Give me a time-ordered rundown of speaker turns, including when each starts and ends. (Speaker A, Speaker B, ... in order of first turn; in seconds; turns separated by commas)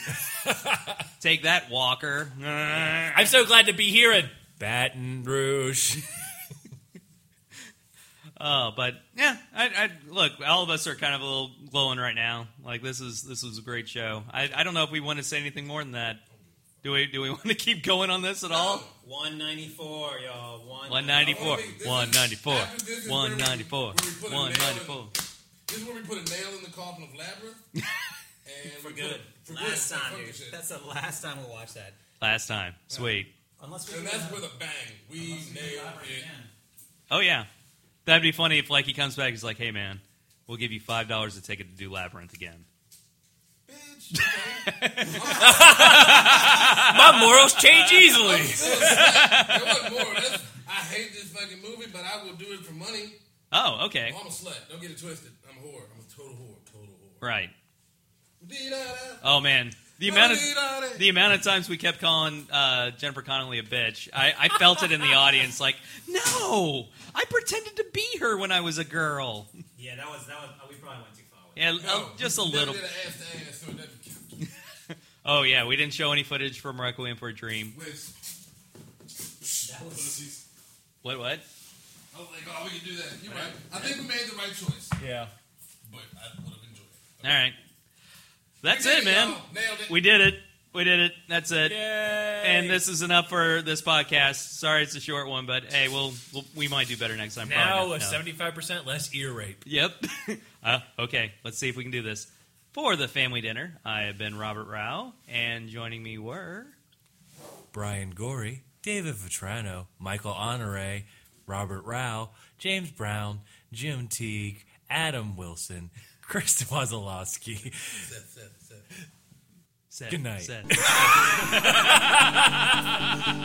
Speaker A: 0.2-1.1, Speaker B: 1.2-3.3, Speaker A: 3.1-6.1, Speaker B: 8.4-16.2, Speaker B: 16.8-18.9, Speaker C: 18.5-18.9, Speaker D: 19.0-21.8, Speaker B: 20.9-25.1, Speaker C: 21.2-25.1, Speaker C: 25.7-27.6, Speaker C: 28.4-30.6, Speaker D: 28.7-32.0, Speaker B: 32.2-33.3, Speaker C: 32.9-33.1, Speaker D: 32.9-34.5, Speaker C: 33.9-36.3, Speaker D: 35.1-36.5, Speaker B: 37.1-37.5, Speaker B: 38.0-42.6, Speaker C: 43.7-46.9, Speaker B: 44.4-50.0, Speaker A: 45.2-49.0, Speaker C: 48.1-53.2, Speaker B: 53.5-54.2, Speaker C: 54.1-57.3, Speaker B: 57.2-57.5, Speaker C: 58.4-59.2, Speaker B: 59.2-69.5, Speaker C: 60.0-61.1, Speaker D: 69.8-71.7, Speaker B: 71.5-72.9, Speaker C: 71.8-74.4, Speaker B: 74.9-77.8, Speaker C: 77.7-78.1, Speaker C: 79.4-80.4, Speaker D: 79.6-80.3, Speaker B: 81.0-81.4, Speaker C: 82.1-84.9, Speaker B: 83.3-83.8, Speaker A: 85.0-85.3, Speaker C: 85.8-87.1, Speaker B: 87.2-87.6, Speaker B: 88.6-91.8, Speaker C: 88.6-90.0, Speaker A: 91.6-92.8, Speaker B: 92.4-98.2, Speaker A: 97.4-99.6, Speaker B: 99.6-106.8, Speaker A: 107.7-118.1, Speaker C: 118.0-118.9, Speaker B: 119.9-123.3, Speaker A: 120.1-122.9, Speaker C: 121.0-121.7